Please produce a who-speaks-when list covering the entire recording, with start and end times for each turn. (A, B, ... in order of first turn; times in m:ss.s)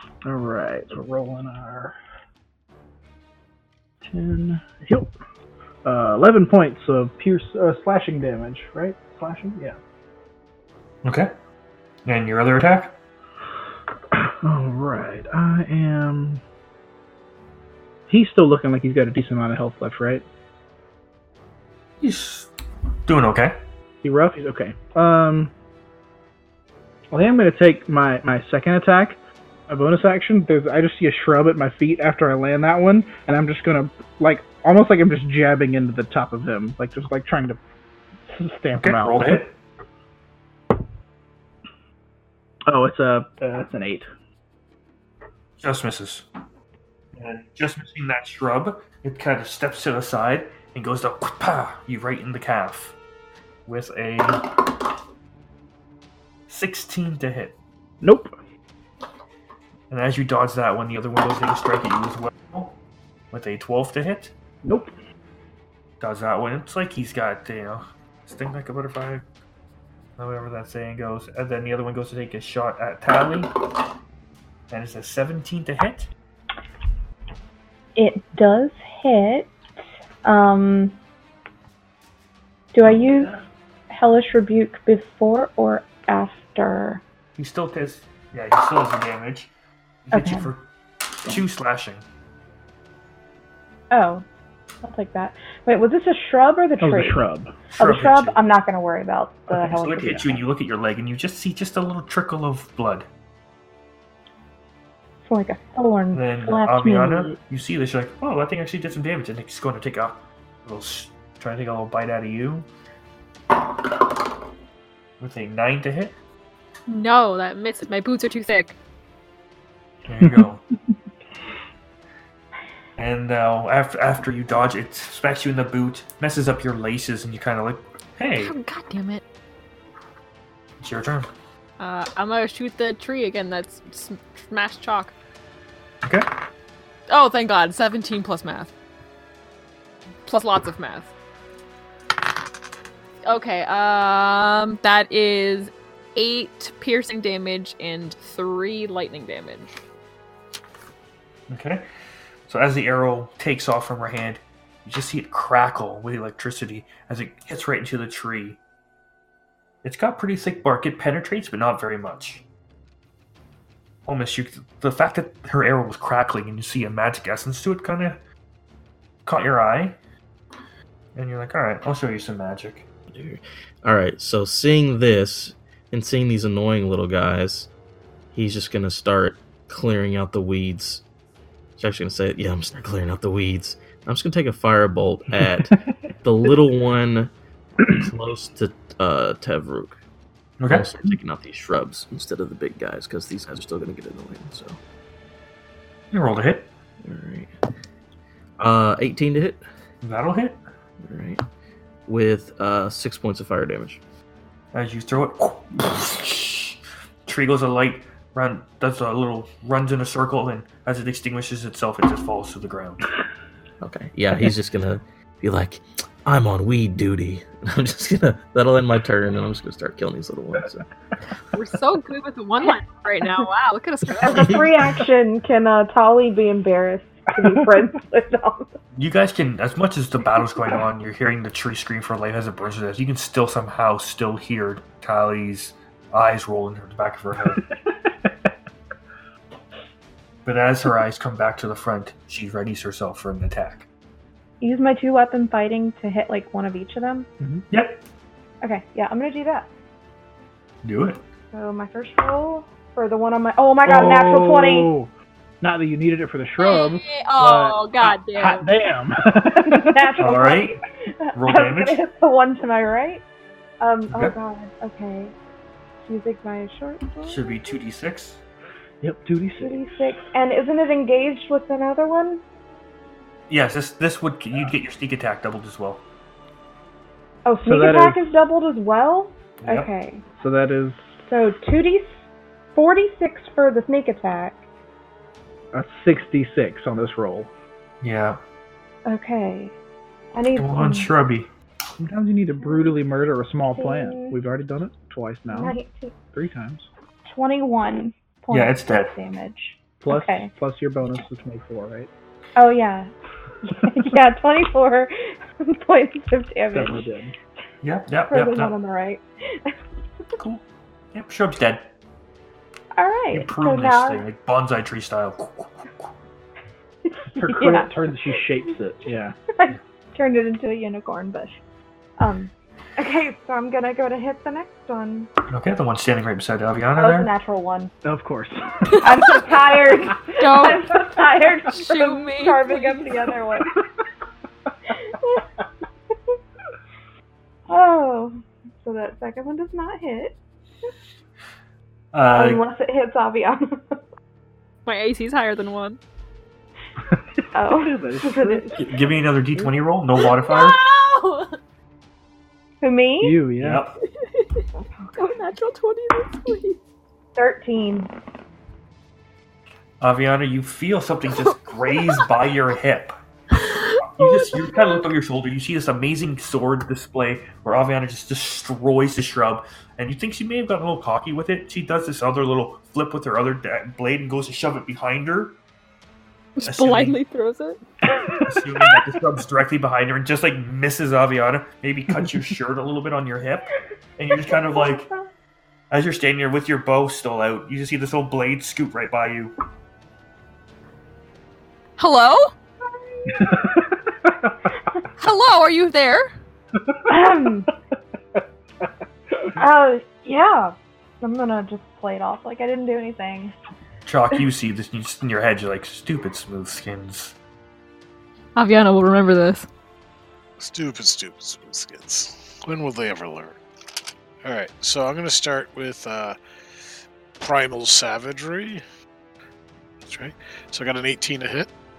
0:00.2-0:02.0 A
0:04.0-0:05.1 A
0:05.8-0:09.8 A
0:11.0-0:11.3 B
0:12.0-0:13.0 B
0:14.1-0:16.4 A
0:18.1-0:20.2 A
0:22.0-0:22.5 B
0:23.1-0:23.6 B
0:24.0-0:25.5 A
0:27.1-0:37.6 A
0:38.3-0:39.5 A
0:38.8-0:39.5 B
0:42.7-0:44.1 A
0:45.6-0:46.3 B
0:47.2-0:53.0 B
0:53.7-0:54.6 B
0:56.5-0:57.6 B
0:58.0-0:58.3 A
0:59.9-1:02.8 B
1:03.3-1:04.3 B
1:04.6-1:04.9 A
1:06.0-1:09.2 B
1:10.2-1:13.6 B
1:14.7-1:16.1 B
1:18.0-1:19.6 C
1:20.2-1:21.0 C
1:22.7-1:23.4 C
1:23.9-1:27.0 C
1:27.4-1:29.5 B
1:30.1-1:32.0 B
1:30.1-1:30.5 C
1:33.9-1:34.2 C
1:34.8-1:37.2 C
1:36.8-1:37.5 A
1:37.8-1:38.4 B
1:37.8-1:40.4 C
1:39.5-1:43.1 B
1:45.2-1:47.4 C
1:46.1-1:52.7 B
1:55.2-1:56.2 B
1:56.9-1:58.8 D
2:00.1-2:00.6 B
2:03.0-2:08.5 B
2:08.4-2:09.2 D
2:10.8-2:11.3 B
2:11.8-2:15.1 D
2:16.0-2:16.3 B
2:17.1-2:18.7 D
2:20.3-2:21.1 D
2:23.2-2:29.7 D
2:31.5-2:31.8 B
2:32.5-2:38.6 B
2:39.8-2:42.4 B
2:44.1-2:48.2 B
2:49.3-2:50.0 B
2:51.2-2:52.9 B
2:53.1-2:57.7 E
2:58.3-3:01.0 E
3:01.8-3:07.3 E
3:07.8-3:10.0 E
3:10.6-3:10.9 B
3:10.7-3:14.8 E
3:16.1-3:16.7 B
3:17.0-3:17.5 E
3:18.6-3:19.6 E
3:20.0-3:20.6 B
3:21.0-3:21.4 E
3:22.1-3:24.0 E
3:24.7-3:33.1 B
3:33.8-3:40.8 E
3:41.5-3:44.7 D
3:44.2-3:48.7 C
3:44.2-3:44.6 E
3:49.0-3:57.6 B
3:57.6-3:58.5 A
4:00.4-4:03.9 B
4:04.6-4:07.3 C
4:07.4-4:07.6 A
4:07.7-4:08.0 B
4:08.6-4:09.7 C
4:10.8-4:11.2 B
4:11.5-4:14.9 C
4:13.8-4:20.1 A
4:16.6-4:18.7 D
4:19.7-4:23.2 C
4:20.2-4:20.8 B
4:21.4-4:22.0 B
4:23.8-4:25.3 C
4:26.0-4:27.5 C
4:27.3-4:28.4 B
4:29.0-4:29.8 A
4:29.6-4:32.4 C
4:33.5-4:36.0 B
4:37.4-4:40.2 C
4:37.6-4:38.2 A
4:39.6-4:39.9 B
4:40.4-4:41.1 A
4:41.3-4:42.2 C
4:42.8-4:44.6 C
4:45.7-4:47.5 A
4:48.0-4:48.4 B
4:49.1-4:49.8 C
4:50.3-4:51.1 C
4:50.6-4:51.5 B
4:52.0-4:55.8 A
4:52.6-4:53.0 C
4:53.7-4:54.4 C
4:55.5-4:56.1 C
4:56.3-4:56.9 A
4:57.3-5:00.5 C
4:58.5-4:59.1 B
5:00.0-5:02.1 A
5:02.6-5:03.1 C
5:03.6-5:07.1 C
5:06.7-5:07.3 A
5:07.8-5:08.7 B
5:08.3-5:09.7 C
5:10.4-5:11.9 B
5:13.0-5:14.2 C
5:13.3-5:16.1 B
5:17.1-5:17.9 C
5:17.3-5:19.4 A
5:19.6-5:21.6 C
5:22.2-5:25.3 C
5:25.5-5:27.3 B
5:27.0-5:27.9 C
5:28.0-5:29.8 A
5:29.0-5:33.8 C
5:30.4-5:31.0 D
5:31.7-5:33.0 D
5:34.9-5:35.5 C
5:37.7-5:40.4 C
5:42.1-5:42.6 B
5:42.3-5:44.0 C
5:44.9-5:46.0 D
5:47.5-5:48.8 C
5:47.6-5:49.7 A
5:48.8-5:50.8 B
5:50.2-5:51.6 D
5:52.8-5:53.4 C
5:53.2-5:53.8 A
5:53.6-5:54.0 B
5:54.2-5:54.6 D
5:55.0-5:55.4 C
5:55.2-5:56.8 D
5:57.4-5:58.1 C
6:00.0-6:03.2 B
6:01.9-6:02.3 D
6:03.6-6:04.7 D
6:04.0-6:15.6 B
6:16.6-6:17.8 D
6:16.6-6:17.2 B
6:18.4-6:25.1 B
6:25.9-6:29.6 B
6:32.0-6:32.5 D
6:33.2-6:33.5 C
6:33.3-6:34.3 A
6:35.2-6:36.3 D
6:36.8-6:37.0 A
6:37.1-6:37.7 C
6:39.6-6:43.5 C
6:44.1-6:47.4 B
6:48.6-6:49.7 D
6:50.6-6:53.6 F
6:54.4-6:56.4 F
6:57.4-6:58.8 F
7:00.1-7:01.7 F